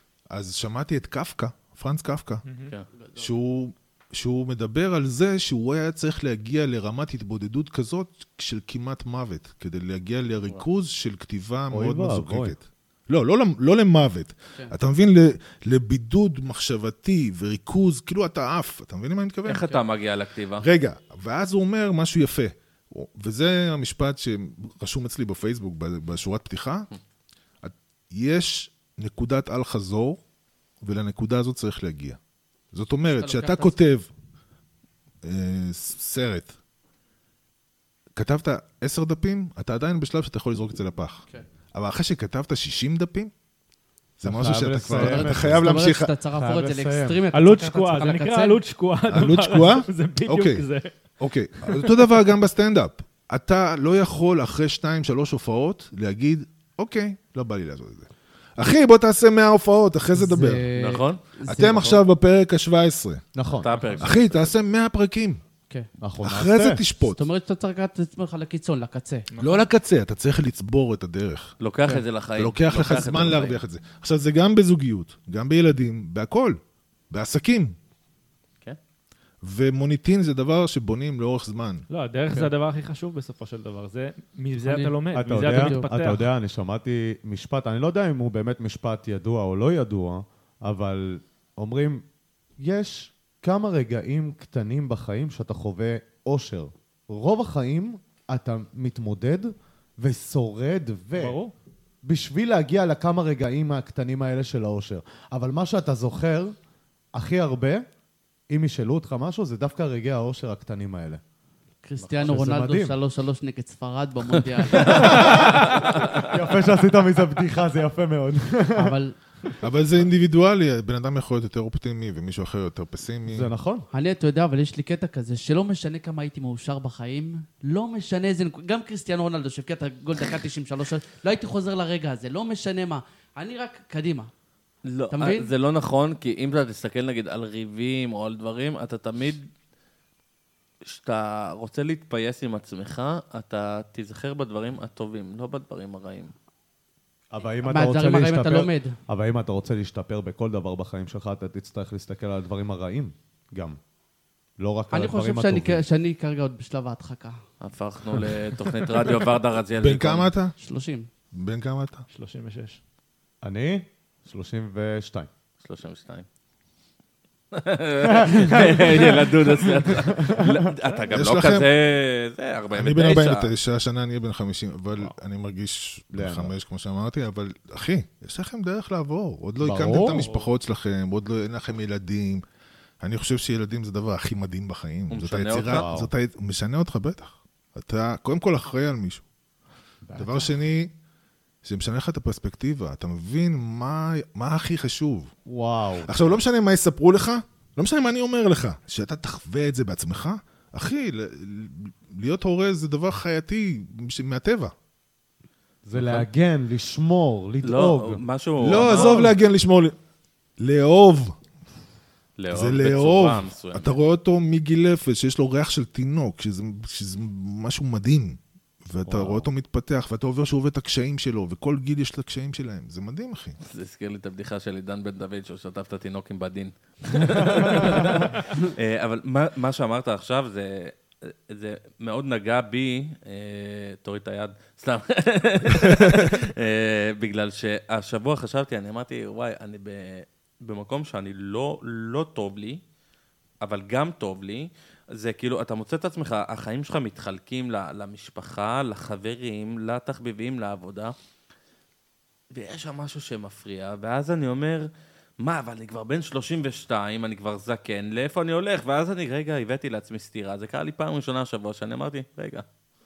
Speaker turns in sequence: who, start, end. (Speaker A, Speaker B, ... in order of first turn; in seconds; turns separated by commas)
Speaker A: 0.3-2.4, Speaker B: 2.5-2.7, Speaker C: 3.0-3.3, Speaker A: 3.2-19.7, Speaker D: 11.7-12.6, Speaker E: 19.5-20.6, Speaker A: 20.6-26.9, Speaker A: 27.6-30.2, Speaker A: 30.8-32.2, Speaker A: 32.7-34.1, Speaker C: 33.0-33.8, Speaker A: 35.2-36.5, Speaker A: 38.1-43.3, Speaker A: 44.2-46.1, Speaker D: 44.2-45.7, Speaker C: 44.9-48.6, Speaker D: 46.3-47.2, Speaker B: 47.3-50.9, Speaker A: 49.1-50.7, Speaker A: 51.2-60.7, Speaker B: 51.6-52.2, Speaker C: 60.2-62.0, Speaker E: 60.7-61.2, Speaker A: 61.5-63.2, Speaker D: 63.4-64.0, Speaker E: 63.6-64.5, Speaker A: 64.0-65.4, Speaker D: 66.0-66.8, Speaker A: 66.2-67.2, Speaker C: 67.2-69.3, Speaker B: 69.3-69.7, Speaker A: 69.4-71.6, Speaker E: 71.6-73.6, Speaker A: 72.3-76.6, Speaker A: 77.1-77.8, Speaker A: 79.4-81.9, Speaker B: 81.9-86.3, Speaker C: 84.6-85.9, Speaker D: 85.1-92.0, Speaker D: 92.6-101.4, Speaker B: 101.1-101.5, Speaker D: 102.0-106.6, Speaker D: 107.1-107.8, Speaker D: 108.5-111.2, Speaker C: 111.8-115.7, Speaker E: 112.0-112.4, Speaker D: 112.2-113.0, Speaker E: 114.7-116.3, Speaker D: 114.9-119.0, Speaker C: 118.8-119.2, Speaker A: 119.6-123.5, Speaker D: 123.3-123.9, Speaker C: 123.9-134.3, Speaker E: 134.8-139.5, Speaker C: 135.1-135.5, Speaker E: 140.8-146.3, Speaker D: 147.3-153.8, Speaker C: 147.6-148.9, Speaker D: 154.6-155.8, Speaker C: 154.9-157.4, Speaker E: 157.6-160.3, Speaker A: 159.8-160.6, Speaker C: 160.6-161.1, Speaker A: 161.3-162.1, Speaker B: 162.1-162.8, Speaker D: 163.4-165.3, Speaker E: 165.6-166.3, Speaker E: 167.5-173.5, Speaker D: 168.1-170.7, Speaker A: 171.1-171.7, Speaker A: 172.7-182.4, Speaker D: 176.1-176.5, Speaker D: 179.6-180.3, Speaker B: 180.0-180.5, Speaker A: 183.0-189.2, Speaker E: 185.1-185.9, Speaker D: 185.6-186.1, Speaker D: 190.1-190.6, Speaker A: 190.2-190.9, Speaker A: 191.6-195.3, Speaker D: 195.5-196.4, Speaker A: 196.0-204.7, Speaker D: 205.9-208.2, Speaker E: 207.6-209.2, Speaker A: 208.6-209.9, Speaker A: 210.6-211.4, Speaker E: 212.4-213.9, Speaker A: 212.5-223.6, Speaker D: 219.1-219.5, Speaker E: 223.6-242.8, Speaker E: 243.6-251.2, Speaker E: 252.5-254.9, Speaker E: 255.4-262.6